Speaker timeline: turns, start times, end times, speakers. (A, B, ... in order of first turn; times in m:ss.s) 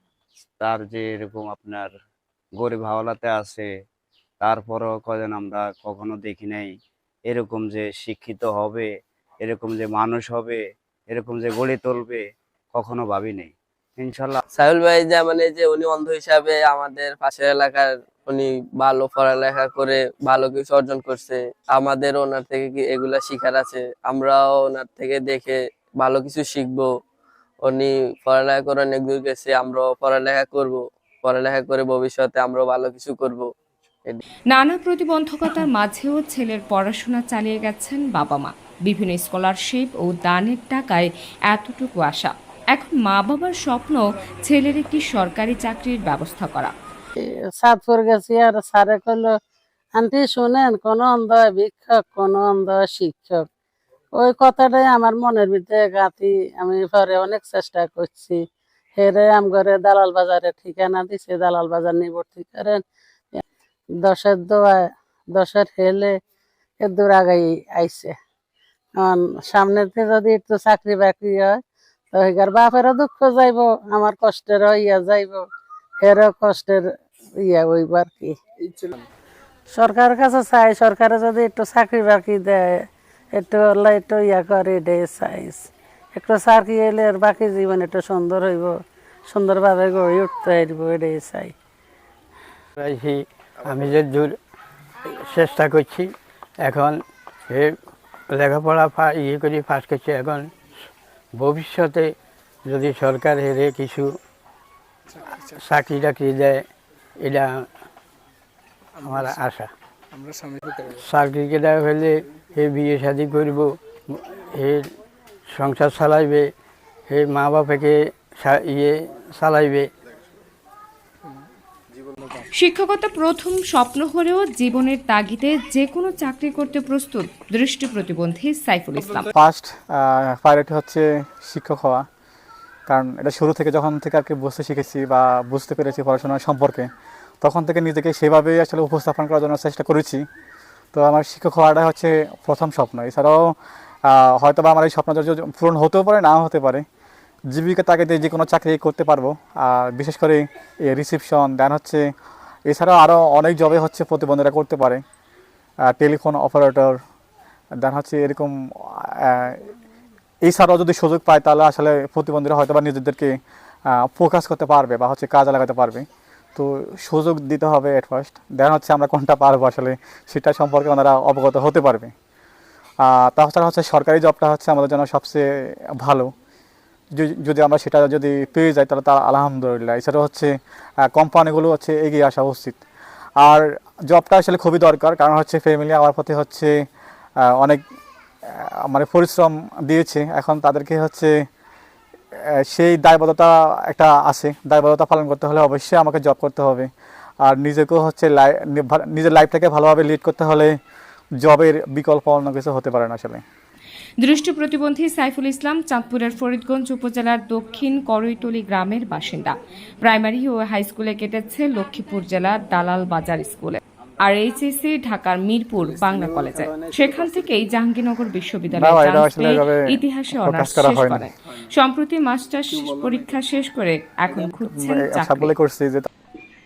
0:00.6-0:01.9 A
0:02.6-0:03.7 A
0:04.4-0:06.7 A
0:07.3-0:08.9 A
0:09.4-0:12.2 A
0:12.7-0:14.4 A
0:14.5-0:26.9 B
0:27.6-0:33.5 B
0:34.5-0:46.7 C
0:47.6-0:49.3 D
0:49.9-0:53.4 D
0:54.2-0:58.4 D
0:59.0-1:02.8 D
1:04.0-1:06.1 D
1:06.8-1:08.1 D
1:09.0-1:11.6 D
1:12.1-1:15.4 D
1:16.0-1:16.8 D
1:17.4-1:18.3 D
1:19.7-1:28.8 D
1:29.3-1:31.5 D
1:32.8-1:34.4 E
1:35.2-1:36.1 E
1:36.6-1:37.0 E
1:38.3-1:40.5 E
1:41.4-1:42.1 E
1:42.6-1:44.2 E
1:45.5-1:46.6 E
1:47.2-1:47.7 E
1:49.0-1:49.7 E
1:50.9-1:54.9 E
1:55.5-1:56.5 E
1:57.1-1:59.9 E
2:02.5-2:09.3 C
2:09.3-2:12.0 F
2:12.9-2:16.9 F
2:17.4-2:20.2 F
2:20.9-2:23.5 F
2:24.1-2:26.8 F
2:27.5-2:32.0 F
2:32.7-2:35.0 F
2:35.9-2:37.0 F
2:37.8-2:38.5 F
2:39.2-2:39.6 F
2:40.4-2:43.3 F
2:44.0-2:52.1 F
2:53.0-2:55.4 F
2:56.0-2:56.3 F
2:57.1-3:00.5 F
3:01.1-3:02.8 F
3:03.4-3:06.7 F
3:07.6-3:07.8 F
3:08.9-3:11.3 F
3:12.7-3:16.9 F
3:17.4-3:20.7 F
3:21.4-3:23.4 F
3:24.2-3:45.5 C
3:38.7-3:39.8 F
3:40.4-3:41.2 F
3:44.7-3:46.1 F